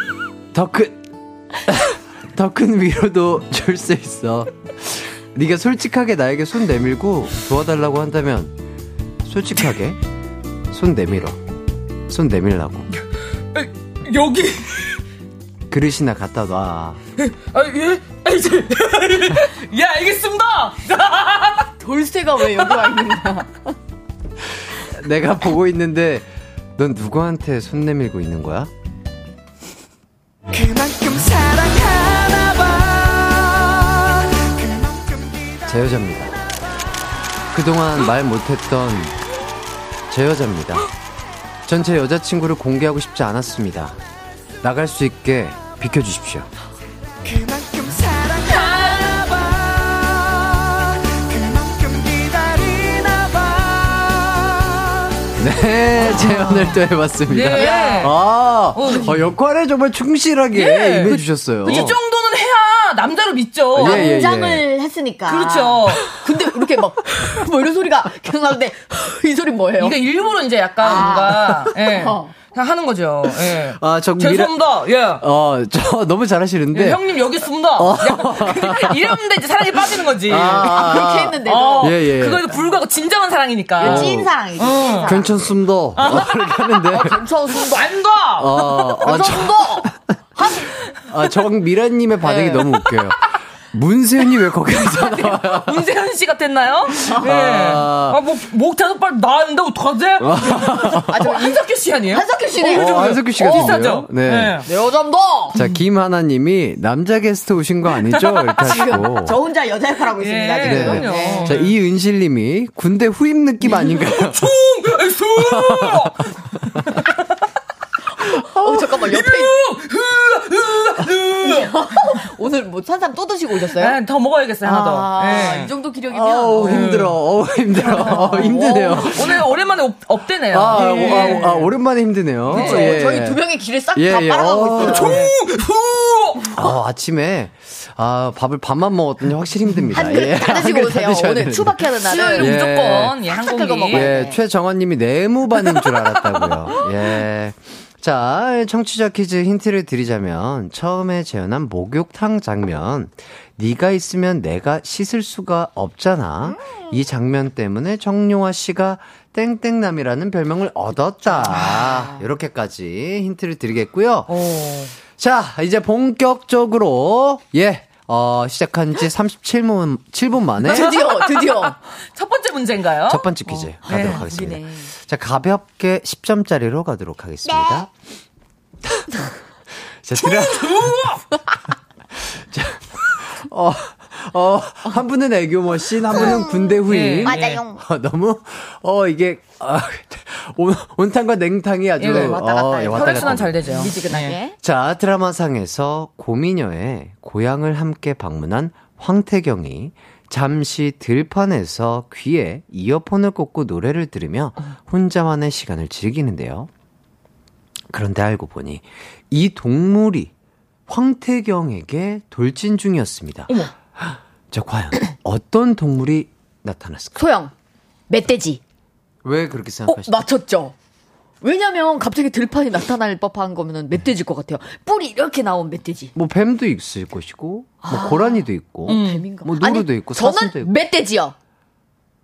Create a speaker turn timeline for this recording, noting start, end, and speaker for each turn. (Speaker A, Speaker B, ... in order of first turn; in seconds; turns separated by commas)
Speaker A: 0.5-1.0, Speaker A: 1.6-8.5, Speaker A: 9.3-10.0, Speaker A: 10.7-11.4, Speaker A: 12.1-12.9, Speaker B: 13.5-15.0, Speaker A: 15.7-17.0, Speaker B: 17.2-21.7, Speaker C: 21.8-23.7, Speaker B: 22.4-23.0, Speaker A: 24.9-28.7, Speaker C: 30.8-32.7, Speaker A: 35.6-36.4, Speaker A: 37.5-39.1, Speaker A: 40.1-40.9, Speaker A: 41.6-44.0, Speaker A: 44.6-46.5, Speaker B: 48.4-49.5, Speaker A: 55.4-62.0, Speaker B: 57.3-58.1, Speaker C: 57.5-58.1, Speaker B: 58.7-59.3, Speaker C: 58.8-59.1, Speaker B: 60.5-64.3, Speaker C: 61.6-61.9, Speaker A: 63.8-64.6, Speaker C: 63.8-70.0, Speaker B: 65.3-66.2, Speaker B: 69.8-75.2, Speaker C: 70.8-72.4, Speaker A: 73.6-74.5, Speaker A: 75.2-77.0, Speaker B: 76.7-80.8, Speaker A: 77.8-79.1, Speaker A: 80.2-82.6, Speaker C: 80.4-82.0, Speaker B: 81.4-85.1, Speaker C: 83.8-85.5, Speaker A: 83.8-84.3, Speaker A: 85.0-87.2, Speaker B: 86.0-86.6, Speaker C: 86.7-88.0, Speaker B: 87.6-88.7, Speaker A: 88.4-90.2, Speaker C: 88.9-90.7, Speaker A: 91.0-95.8, Speaker C: 92.2-92.7, Speaker B: 95.0-104.7, Speaker A: 97.1-98.2, Speaker A: 100.2-101.1, Speaker C: 101.1-103.8, Speaker A: 102.7-104.6, Speaker C: 104.6-105.6, Speaker A: 105.5-109.3, Speaker B: 108.1-108.7, Speaker C: 108.6-111.6, Speaker B: 110.2-111.7, Speaker A: 110.6-114.5, Speaker B: 113.8-116.3, Speaker A: 115.4-116.8, Speaker C: 118.2-119.6, Speaker B: 118.9-122.2, Speaker C: 121.4-124.0, Speaker B: 123.6-125.7, Speaker C: 124.6-127.0, Speaker A: 126.1-129.5, Speaker B: 126.5-127.2, Speaker C: 127.7-129.5, Speaker B: 128.0-131.7, Speaker A: 130.5-133.4, Speaker C: 130.7-131.6, Speaker B: 132.5-133.0, Speaker C: 132.5-135.3, Speaker A: 133.9-135.3, Speaker B: 134.8-136.6, Speaker A: 136.5-143.2, Speaker C: 139.9-142.6, Speaker B: 142.0-144.2, Speaker C: 143.2-144.4, Speaker A: 143.9-170.9, Speaker C: 161.5-162.2, Speaker B: 164.3-164.9, Speaker C: 170.7-171.8, Speaker B: 170.7-173.3, Speaker A: 173.1-177.9, Speaker C: 173.5-174.9, Speaker B: 173.8-174.2, Speaker C: 177.4-177.9, Speaker A: 179.8-181.1, Speaker B: 180.2-181.2, Speaker A: 182.3-206.7, Speaker B: 186.1-187.6, Speaker C: 186.1-187.8, Speaker B: 192.0-194.4, Speaker C: 192.1-194.6, Speaker A: 207.9-210.3, Speaker A: 210.9-217.3, Speaker C: 217.2-217.5, Speaker C: 218.1-218.6, Speaker A: 219.2-220.2, Speaker C: 219.9-220.7, Speaker C: 221.4-226.1, Speaker A: 226.1-230.7, Speaker C: 227.8-231.3, Speaker B: 228.9-229.3